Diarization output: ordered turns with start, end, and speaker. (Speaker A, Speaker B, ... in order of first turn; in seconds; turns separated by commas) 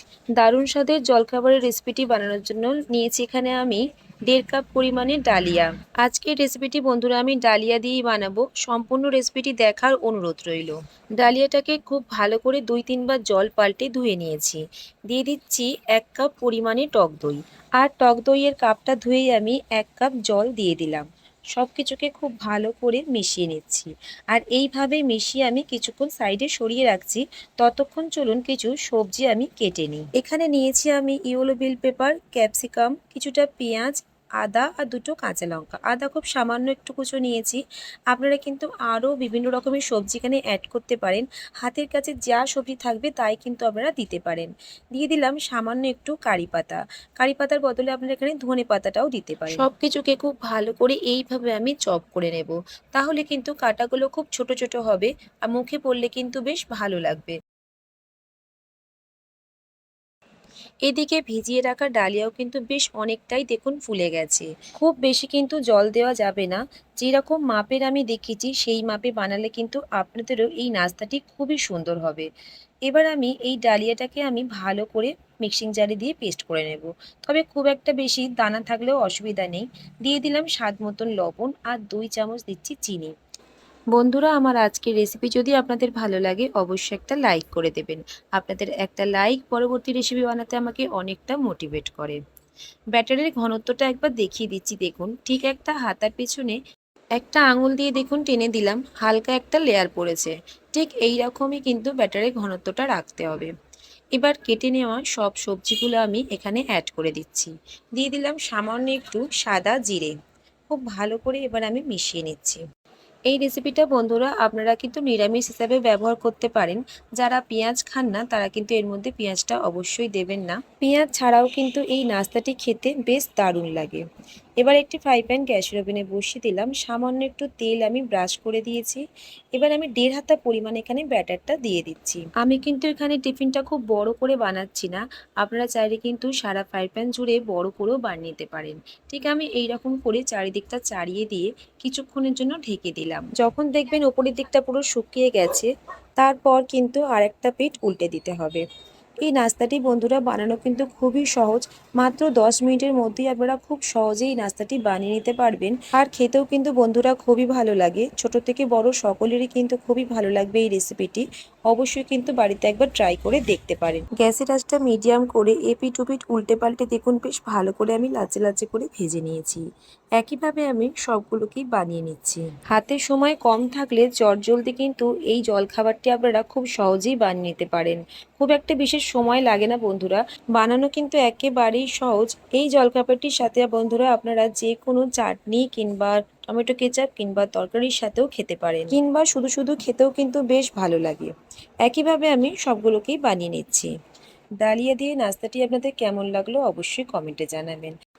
Speaker A: 0.4-37.6, Speaker A: 38.1-57.3, Speaker A: 60.9-72.3, Speaker A: 72.9-83.1, Speaker A: 83.9-92.2, Speaker A: 92.9-96.6, Speaker A: 97.2-103.5, Speaker A: 104.1-110.1, Speaker A: 110.7-112.6, Speaker A: 113.3-124.0, Speaker A: 124.6-129.0, Speaker A: 129.6-148.6, Speaker A: 149.2-169.6, Speaker A: 170.2-191.3, Speaker A: 191.8-193.9, Speaker A: 194.6-197.9